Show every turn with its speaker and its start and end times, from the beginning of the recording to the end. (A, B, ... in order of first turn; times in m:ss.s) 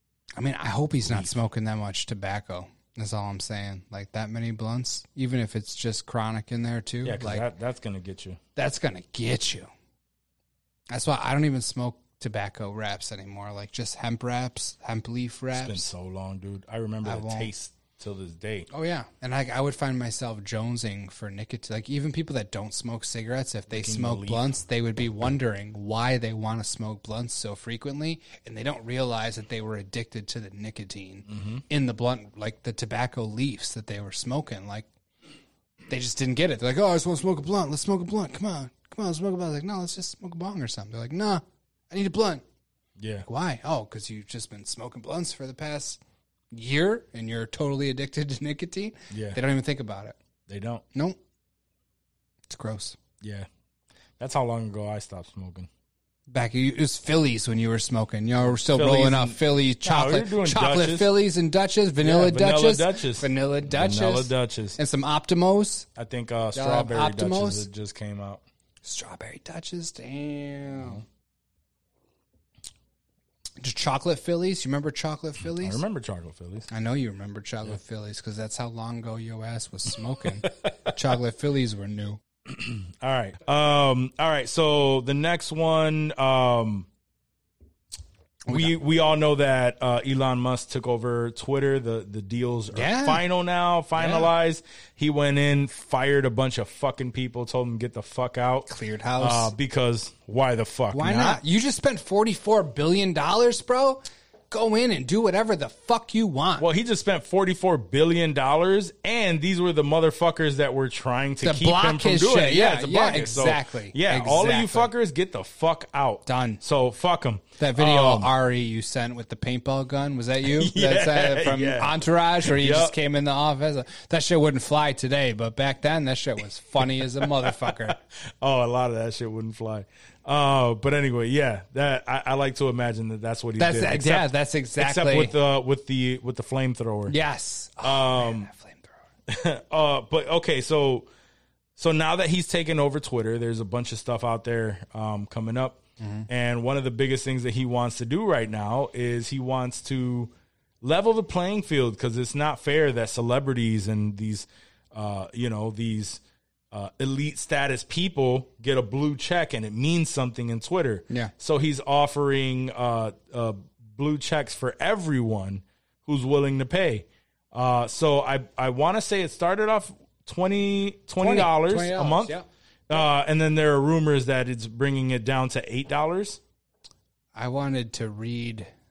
0:00.4-0:07.5 A
0:01.0-0:01.3 B
0:07.0-0:08.4 B
0:08.6-0:09.7 A
0:10.9-0:15.9 A
0:15.5-0:18.7 B
0:17.0-0:17.5 A
0:18.7-0:34.9 A
0:23.7-0:24.5 B
0:31.3-0:31.6 B
0:35.9-0:42.4 A
0:43.0-0:43.3 B
0:43.3-0:46.0 A
0:46.5-0:50.2 A
0:49.1-0:49.4 B
0:50.5-0:50.8 B
0:52.5-0:53.0 A
0:53.2-0:53.5 B
0:54.2-0:55.7 B
0:56.3-1:05.9 A
0:58.6-1:01.1 B
1:02.0-1:04.8 B
1:06.0-1:08.4 B
1:06.5-1:07.7 A
1:08.8-1:11.0 A
1:10.7-1:11.0 B
1:13.6-1:15.8 A
1:15.6-1:16.7 B
1:16.7-1:22.2 A
1:22.5-1:26.9 B
1:28.5-1:28.7 A
1:28.5-1:41.4 B
1:32.7-1:33.2 A
1:34.0-1:34.3 A
1:38.7-1:39.5 A
1:40.9-1:46.7 A
1:46.6-1:58.3 B
1:51.4-1:54.9 A
1:56.3-1:56.6 A
1:57.6-2:08.0 A
2:00.5-2:03.0 B
2:07.0-2:17.2 B
2:13.6-2:15.3 A
2:17.1-2:18.9 A
2:17.8-2:18.5 B
2:19.3-2:21.1 B
2:21.8-2:36.2 B
2:26.0-2:26.3 A
2:36.7-2:52.4 B
2:51.2-2:52.5 A
2:52.9-2:56.4 B
2:57.3-2:58.7 A